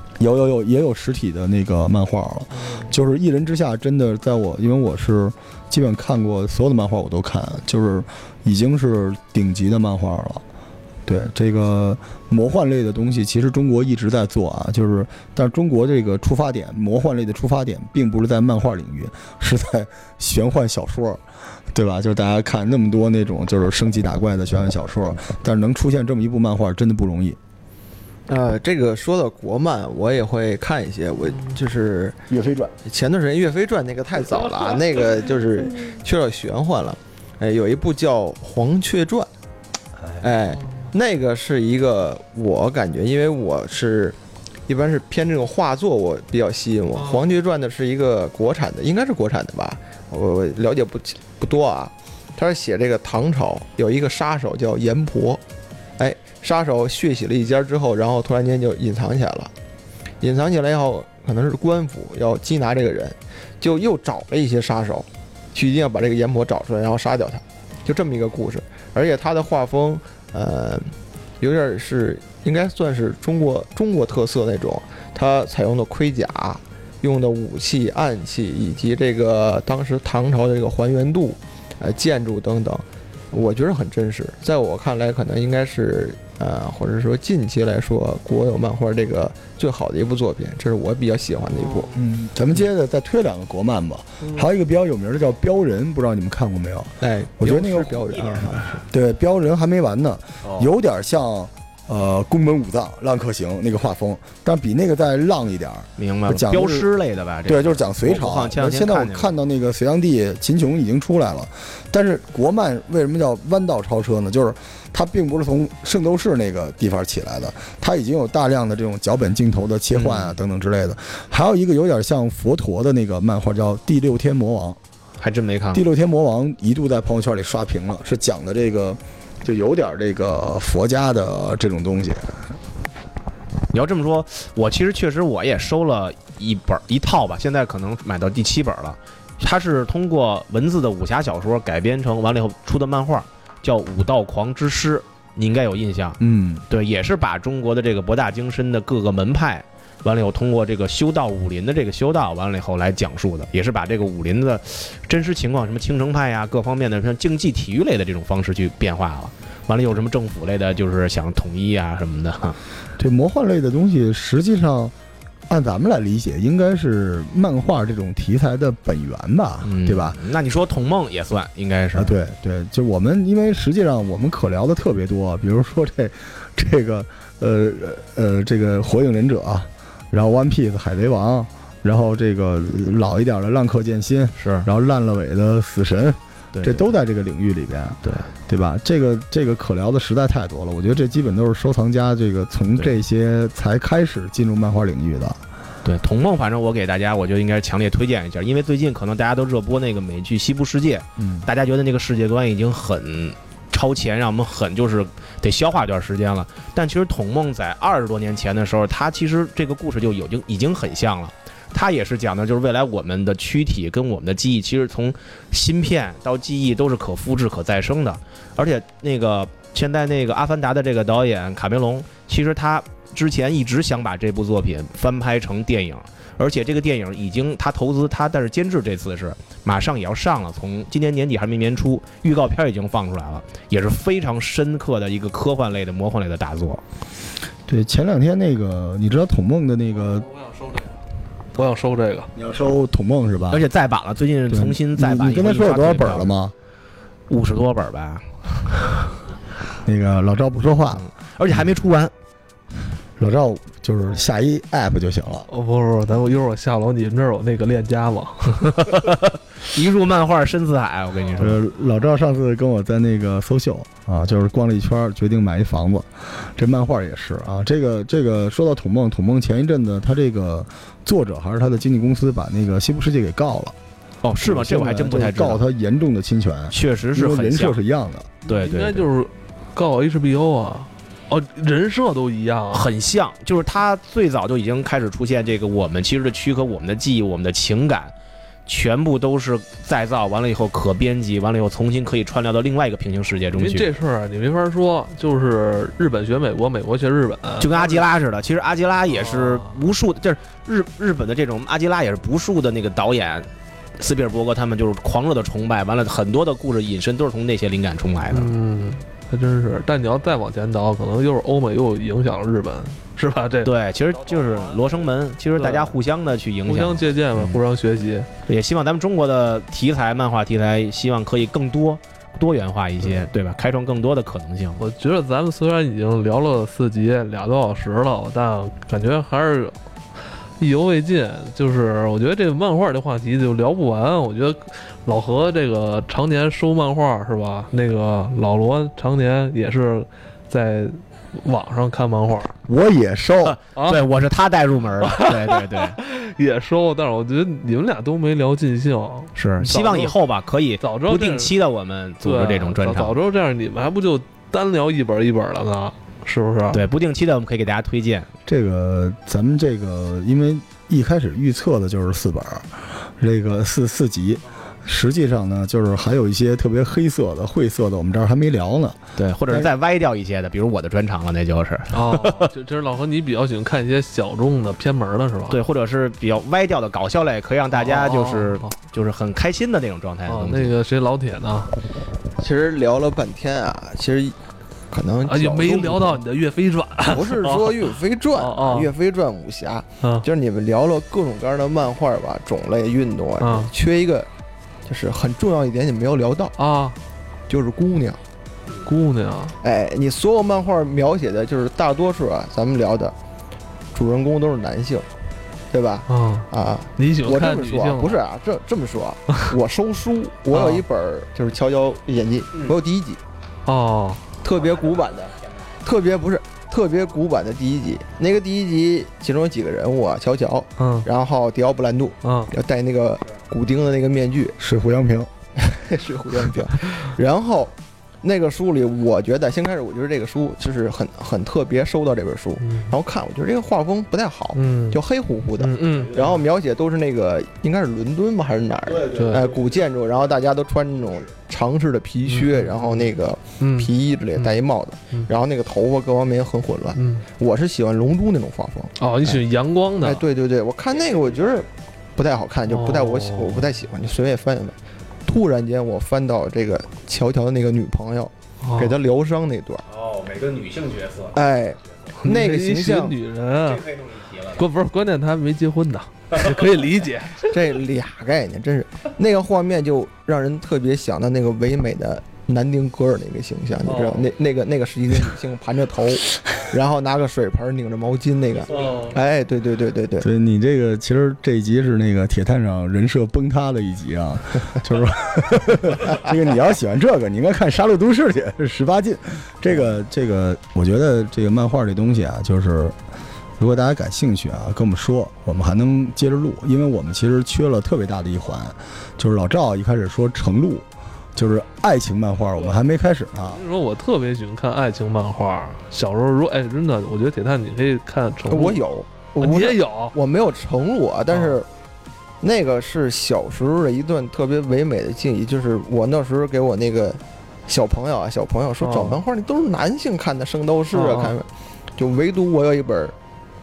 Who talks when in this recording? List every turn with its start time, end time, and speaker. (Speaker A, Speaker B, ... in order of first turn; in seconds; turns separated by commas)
Speaker A: 0.2-10.4, Speaker B: 2.5-2.9, Speaker A: 11.1-27.4, Speaker C: 28.3-32.2, Speaker A: 32.3-32.8, Speaker C: 32.9-39.3, Speaker C: 40.2-44.2, Speaker C: 44.7-55.4, Speaker C: 56.0-59.5, Speaker C: 60.2-92.0, Speaker A: 91.9-106.9, Speaker C: 97.0-98.8, Speaker D: 100.4-100.7, Speaker D: 106.0-109.3, Speaker A: 107.5-124.8, Speaker D: 119.9-120.4, Speaker D: 125.2-125.8, Speaker A: 125.7-132.5, Speaker D: 133.7-162.6, Speaker A: 146.2-146.7, Speaker A: 163.0-164.9, Speaker A: 165.5-170.2, Speaker D: 169.6-172.2, Speaker A: 171.9-195.4, Speaker D: 184.4-184.7, Speaker D: 186.5-186.8, Speaker D: 195.8-236.8, Speaker A: 201.2-201.5, Speaker A: 237.7-240.3, Speaker B: 240.4-240.9, Speaker B: 241.5-242.3, Speaker A: 242.3-243.7, Speaker D: 243.5-246.3, Speaker A: 244.5-246.5, Speaker D: 247.3-249.0, Speaker A: 249.8-251.7, Speaker D: 250.9-252.1, Speaker A: 253.2-255.5, Speaker B: 255.5-258.9, Speaker D: 258.8-261.6, Speaker A: 261.4-273.8, Speaker D: 274.2-275.6, Speaker A: 274.4-278.3, Speaker D: 276.7-277.8, Speaker D: 278.5-279.1, Speaker B: 278.5-282.9, Speaker D: 282.7-288.1, Speaker D: 288.7-293.9, Speaker B: 293.5-298.1, Speaker D: 297.6-308.5, Speaker B: 299.1-299.9, Speaker B: 308.3-313.7, Speaker D: 313.6-317.6, Speaker B: 315.6-316.0, Speaker B: 316.7-318.3, Speaker D: 318.5-324.8, Speaker B: 324.8-329.8, Speaker B: 330.6-342.6, Speaker A: 342.7-343.6, Speaker D: 343.4-346.0, Speaker B: 343.8-344.0, Speaker B: 345.0-350.2, Speaker D: 349.4-353.2, Speaker B: 350.8-351.5, Speaker B: 352.2-356.8, Speaker D: 356.7-358.3, Speaker A: 358.5-369.0, Speaker D: 369.2-372.5, Speaker B: 371.9-375.6, Speaker D: 375.5-380.8, Speaker B: 377.7-378.7, Speaker B: 380.3-381.7, Speaker C: 382.4-384.4, Speaker C: 384.9-386.2, Speaker B: 385.2-388.9, Speaker C: 387.0-394.3, Speaker B: 390.0-390.3, Speaker B: 393.4-393.7, Speaker C: 394.9-396.6, Speaker B: 396.6-397.0, Speaker C: 397.5-398.2, Speaker B: 398.9-399.6, Speaker C: 399.6-403.1, Speaker C: 403.9-405.1, Speaker C: 405.7-413.2, Speaker B: 406.1-408.2, Speaker B: 410.5-410.8, Speaker B: 413.7-414.2, Speaker C: 414.4-424.6, Speaker D: 414.6-415.1, Speaker B: 420.8-421.1, Speaker B: 422.2-422.5, Speaker A: 424.6-425.3, Speaker C: 425.6-449.4, Speaker B: 432.6-432.9, Speaker B: 434.6-435.0, Speaker B: 435.6-436.3, Speaker D: 435.9-436.4, Speaker D: 438.9-439.8, Speaker B: 439.1-439.5, Speaker B: 442.3-443.1, Speaker B: 443.6-444.6, Speaker B: 447.0-447.2, Speaker B: 449.0-450.2, Speaker C: 450.0-459.8, Speaker D: 450.9-451.6, Speaker B: 452.7-453.7, Speaker B: 458.6-459.0, Speaker D: 459.9-461.4, Speaker C: 461.3-463.2, Speaker B: 462.2-463.8, Speaker D: 463.6-464.6, Speaker B: 464.5-467.6, Speaker C: 467.5-480.3, Speaker B: 473.9-474.3, Speaker B: 478.8-479.2, Speaker A: 480.2-493.0, Speaker A: 493.6-503.6, Speaker B: 503.5-508.8, Speaker C: 508.5-511.7, Speaker B: 509.4-510.1, Speaker B: 511.3-511.6, Speaker C: 512.4-523.2, Speaker B: 518.8-519.2, Speaker B: 520.9-521.4